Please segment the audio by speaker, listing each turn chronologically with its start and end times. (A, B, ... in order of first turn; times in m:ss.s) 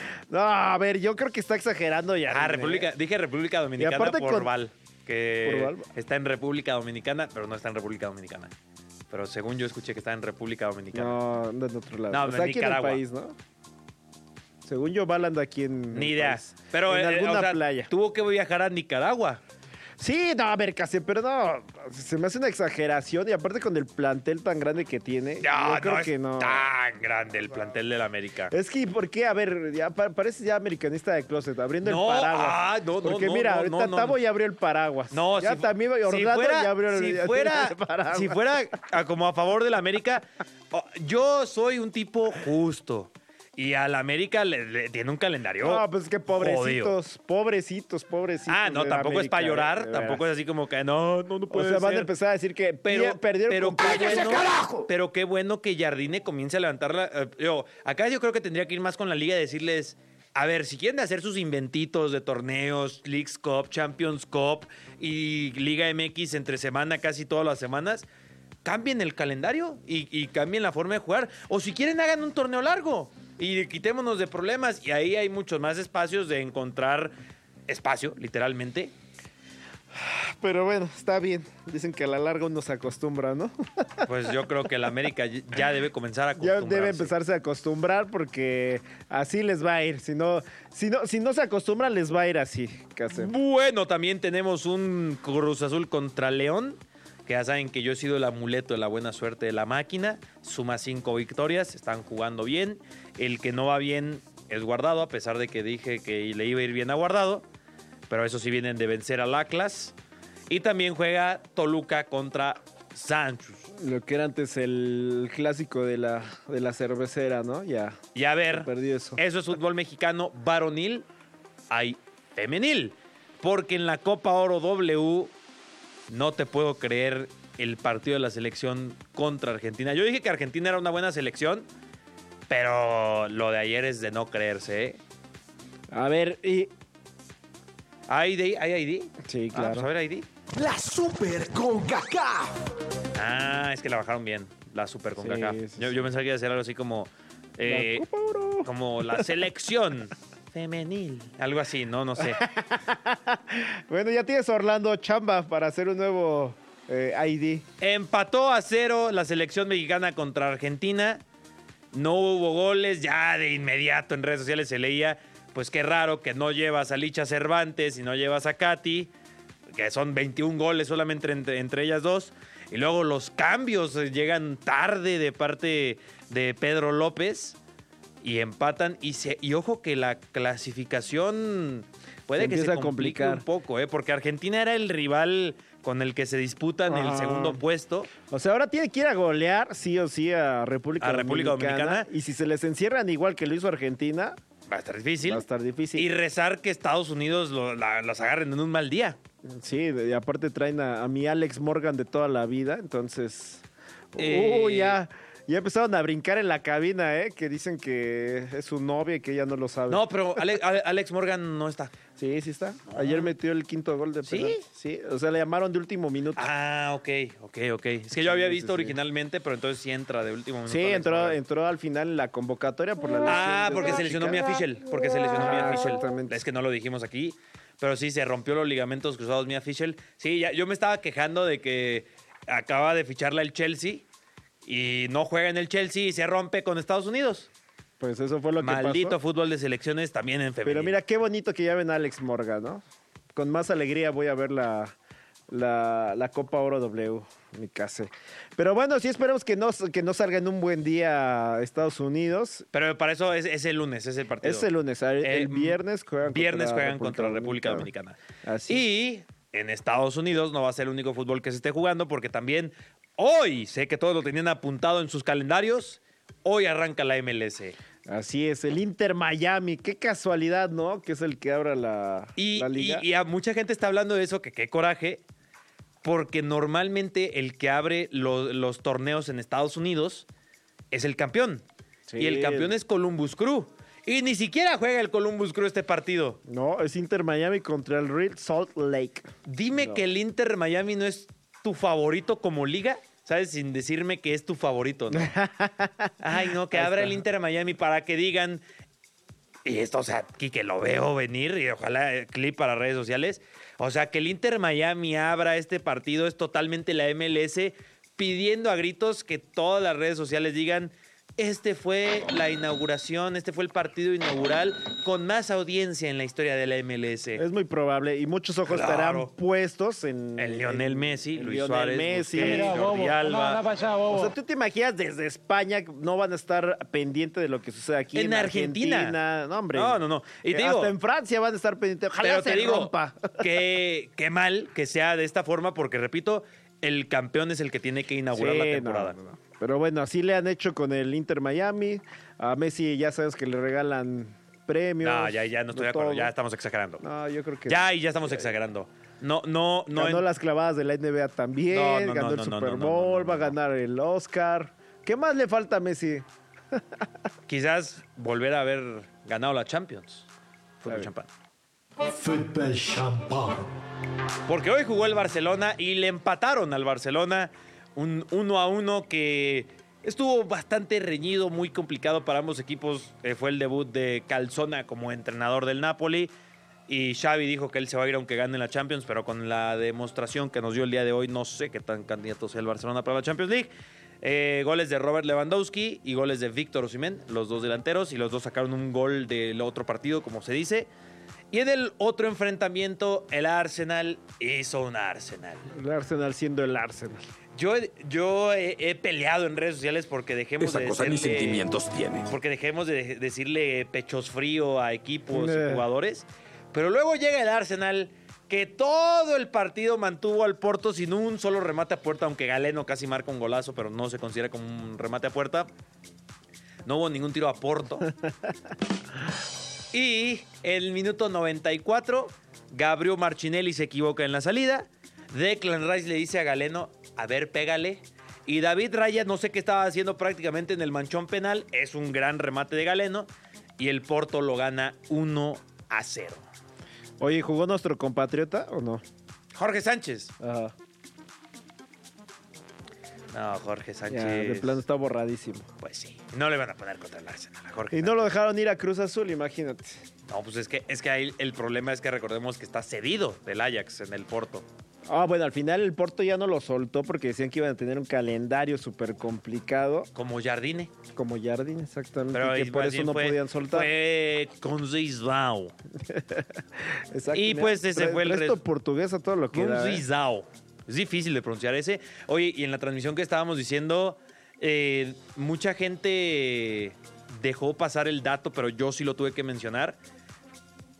0:00.3-0:02.9 A
0:02.3-0:08.5 B
0:03.8-0:04.5 A
0:05.4-0:05.9 A
0:09.1-0:11.2 B
0:10.9-0:13.4 A
0:12.1-0:13.0 B
0:14.6-0:17.9 A
0:15.9-0:19.4 B
0:20.0-0:26.6 A
0:25.4-0:28.5 B
0:28.5-0:38.4 A
0:31.8-0:34.2 B
0:35.1-0:46.9 B
0:45.6-0:50.2 A
0:48.5-0:52.1 B
0:51.5-0:54.9 A
0:52.8-1:08.0 B
1:08.6-1:17.1 B
1:17.7-1:18.9 B
1:19.9-1:24.1 A
1:24.0-1:27.1 B
1:26.4-1:33.3 A
1:33.1-1:47.4 B
1:48.1-1:49.9 B
1:50.5-1:53.7 B
1:53.7-1:58.0 A
1:58.1-2:01.1 B
1:58.5-1:59.2 A
2:01.7-2:05.3 B
2:06.1-2:11.7 B
2:12.5-2:15.0 B
2:15.9-2:16.7 A
2:18.1-2:20.3 B
2:19.2-2:19.9 A
2:20.5-2:22.5 C
2:23.1-2:28.0 B
2:25.2-2:26.0 A
2:27.6-2:29.3 A
2:28.6-2:32.4 B
2:32.2-2:37.6 A
2:37.8-2:41.2 B
2:41.9-2:49.1 B
2:49.7-2:57.6 B
2:58.2-3:08.1 B
3:02.4-3:03.4 A
3:06.9-3:07.6 A
3:08.2-3:14.4 A
3:11.0-3:12.1 B
3:14.7-3:19.2 B
3:15.2-3:16.1 A
3:19.4-3:30.4 A
3:24.2-3:25.0 B
3:29.9-3:31.9 B
3:32.2-3:36.5 A
3:32.9-3:33.3 B
3:34.2-3:34.6 B
3:36.4-3:41.4 B
3:38.2-3:39.0 A
3:40.7-3:44.6 A
3:43.2-3:54.0 B
3:45.4-3:46.4 A
3:54.6-3:57.5 B
3:58.0-3:59.2 A
3:58.6-4:01.0 B
4:00.6-4:02.8 A
4:03.3-4:04.9 A
4:05.5-4:12.7 A
4:12.7-4:14.7 B
4:14.4-4:17.9 A
4:15.2-4:27.8 B
4:18.4-4:18.9 A
4:28.0-4:33.0 A
4:32.4-4:35.2 B
4:36.0-4:40.2 B
4:40.9-4:41.6 B
4:42.1-4:42.7 A
4:42.2-4:46.4 B
4:46.4-4:50.0 A
4:49.4-4:55.3 B
4:55.1-4:57.2 A
4:56.2-4:58.6 B
4:59.6-5:17.4 B
5:17.4-5:22.8 A
5:18.7-5:19.3 B
5:20.4-5:23.7 B
5:24.0-5:33.5 A
5:28.1-5:29.2 B
5:29.7-5:30.9 B
5:32.2-5:39.2 B
5:38.3-5:46.3 A
5:45.0-5:47.0 B
5:47.0-5:48.5 A
5:47.7-5:50.2 B
5:49.9-5:57.0 A
5:51.7-5:53.6 B
5:57.5-6:00.3 B
6:00.8-6:01.3 B
6:02.0-6:03.7 C
6:04.5-6:16.3 B
6:16.9-6:30.9 B
6:31.5-6:35.7 B
6:35.7-6:37.2 A
6:37.6-6:41.7 B
6:40.6-6:42.2 C
6:42.2-6:55.7 B
6:45.3-6:45.9 A
6:56.8-6:58.1 B
6:59.9-7:16.4 B
7:17.2-7:19.0 A
7:19.5-7:20.3 B
7:20.4-7:20.7 A
7:23.3-7:24.8 B
7:24.1-7:25.7 A
7:25.8-7:28.3 B
7:27.9-7:30.0 A
7:30.3-7:34.6 B
7:35.1-7:40.1 A
7:40.1-7:40.9 B
7:41.1-7:43.9 A
7:42.3-7:45.7 B
7:46.0-7:50.0 A
7:47.3-7:48.6 B
7:49.5-8:00.0 B